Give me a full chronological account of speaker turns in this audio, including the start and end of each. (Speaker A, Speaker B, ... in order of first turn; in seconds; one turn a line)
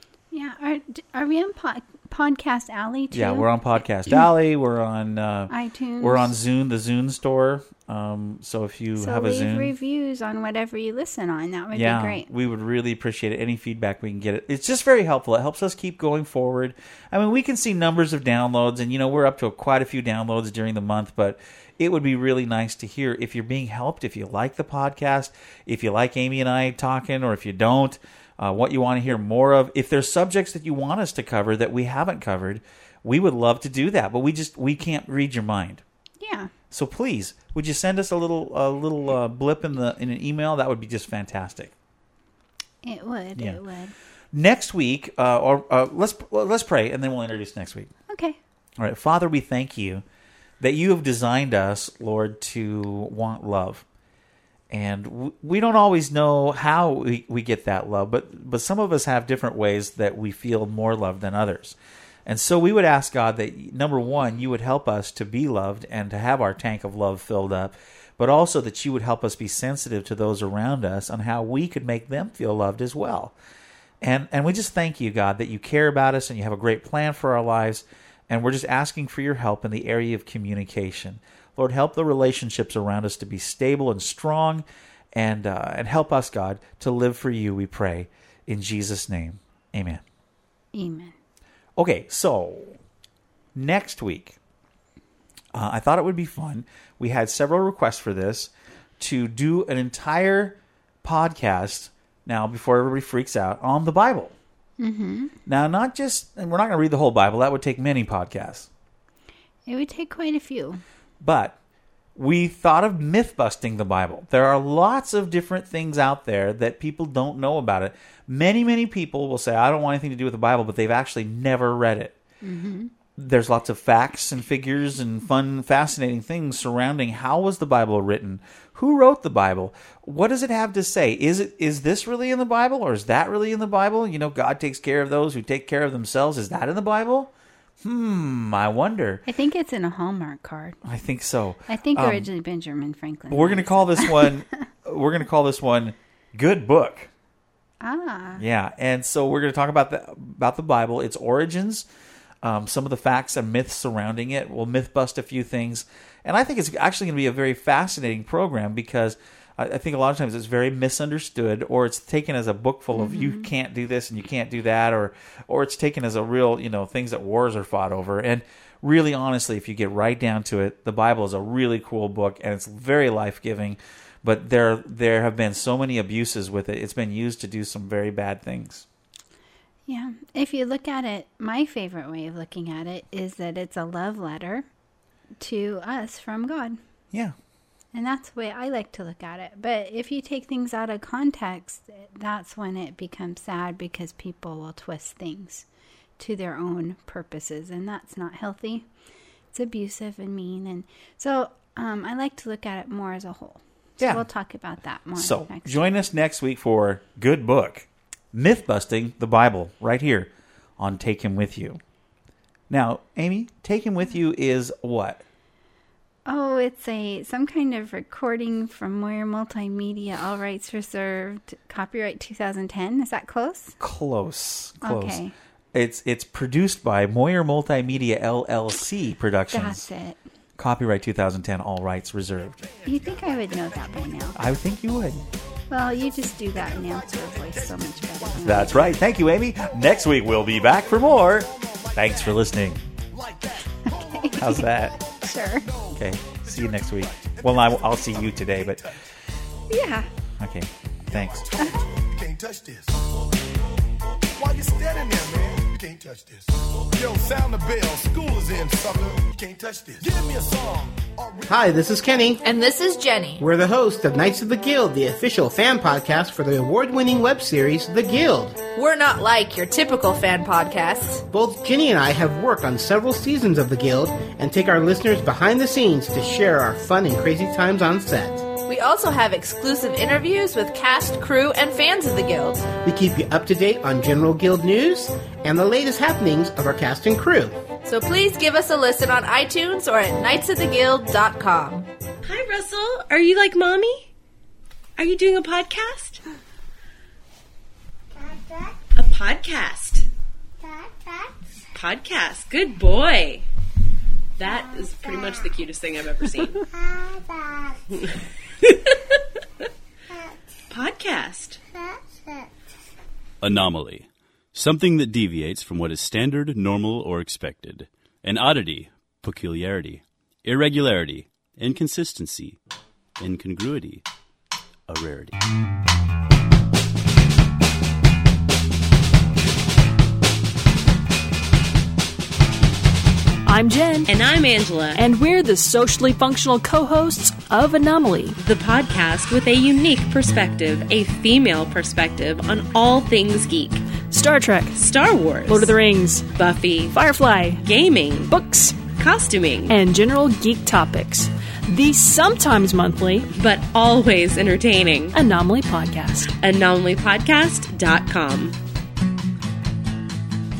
Speaker A: 0.3-4.3
Speaker B: 3.1-9.7
Speaker A: 5.5-6.3
Speaker A: 9.0-12.3
Speaker B: 11.7-35.8
Speaker A: 36.2-36.5
Speaker B: 36.7-41.7
Speaker A: 42.8-43.9
Speaker B: 44.3-47.9
Speaker A: 48.1-48.4
Speaker B: 48.8-50.0
Speaker B: 50.6-53.9
Speaker B: 54.7-73.3
Speaker B: 74.0-90.0
Speaker A: 90.7-91.1
Speaker B: 91.8-92.8
Speaker B: 93.5-94.4
Speaker B: 95.5-104.3
Speaker A: 104.8-105.3
Speaker B: 105.5-108.7
Speaker A: 109.7-110.8
Speaker B: 111.2-111.6
Speaker B: 112.2-122.2
Speaker A: 122.4-122.9
Speaker B: 123.2-137.3
Speaker B: 137.8-139.2
Speaker A: 139.3-140.8
Speaker B: 140.8-142.3
Speaker A: 141.7-144.5
Speaker B: 143.3-147.1
Speaker A: 147.8-148.4
Speaker B: 148.4-151.8
Speaker B: 152.4-178.8
Speaker A: 162.9-163.5
Speaker A: 179.9-184.7
Speaker A: 185.4-186.8
Speaker A: 187.9-195.7
Speaker A: 196.2-198.9
Speaker A: 199.5-205.9
Speaker B: 205.2-211.8
Speaker B: 212.7-215.2
Speaker A: 216.3-223.8
Speaker B: 223.8-225.2
Speaker A: 224.8-225.3
Speaker B: 225.7-229.9
Speaker A: 229.5-230.2
Speaker B: 230.6-232.6
Speaker C: 232.5-234.3
Speaker A: 232.8-234.4
Speaker B: 234.3-235.2
Speaker A: 235.7-238.9
Speaker C: 235.9-238.8
Speaker B: 238.4-242.8
Speaker C: 239.6-242.4
Speaker C: 243.1-248.9
Speaker A: 243.9-244.7
Speaker B: 244.3-245.0
Speaker A: 245.2-245.7
Speaker B: 245.9-248.9
Speaker A: 249.7-250.1
Speaker B: 250.4-251.5
Speaker C: 251.1-253.5
Speaker A: 251.6-251.9
Speaker C: 254.4-261.6
Speaker D: 261.5-262.4
Speaker E: 262.4-263.4
Speaker D: 263.4-268.6
Speaker E: 268.8-271.2
Speaker D: 271.3-278.5
Speaker E: 278.6-282.7
Speaker D: 282.8-287.6
Speaker E: 287.8-291.9
Speaker F: 292.2-294.1
Speaker F: 295.0-296.2
Speaker F: 298.9-300.1
Speaker F: 301.8-303.4
Speaker F: 304.4-306.6
Speaker F: 310.7-311.6
Speaker G: 313.4-322.6
Speaker G: 323.2-324.0
Speaker G: 324.9-325.4
Speaker H: 333.4-334.1
Speaker F: 334.1-335.0
Speaker H: 334.9-338.4
Speaker F: 338.4-343.8
Speaker H: 344.0-344.8
Speaker F: 344.8-345.7
Speaker H: 345.5-346.4
Speaker F: 346.3-347.0
Speaker H: 346.9-347.6
Speaker F: 347.6-348.3
Speaker H: 348.3-348.9
Speaker F: 348.9-349.7
Speaker H: 349.7-353.3
Speaker F: 353.3-355.2
Speaker H: 355.1-356.4
Speaker F: 356.4-358.6